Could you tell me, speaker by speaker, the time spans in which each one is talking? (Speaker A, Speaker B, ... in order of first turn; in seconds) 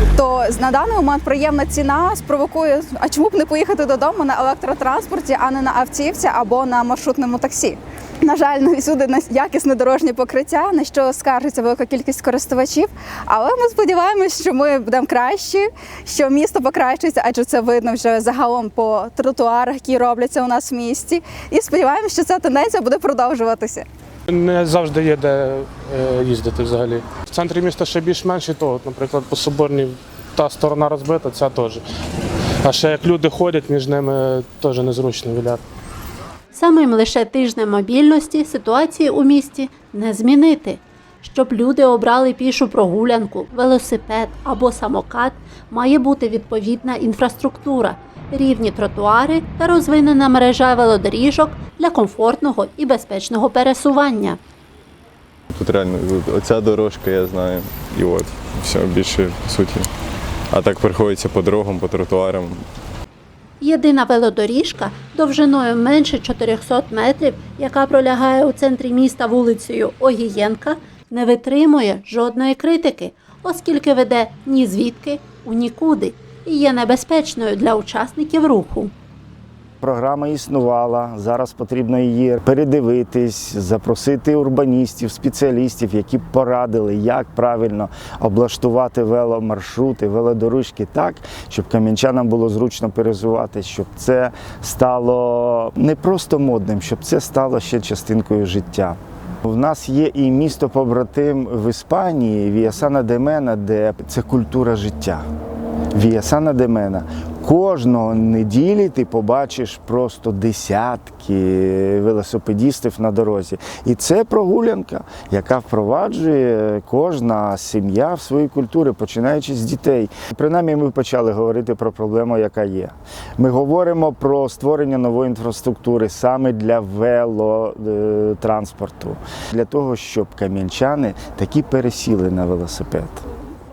Speaker A: 0.1-23.9
Speaker B: 24.4-31.8, 32.7-35.6
Speaker C: 36.5-54.4, 63.6-78.9
Speaker D: 55.5-59.9, 60.5-62.6
Speaker E: 79.8-105.2, 105.9-133.2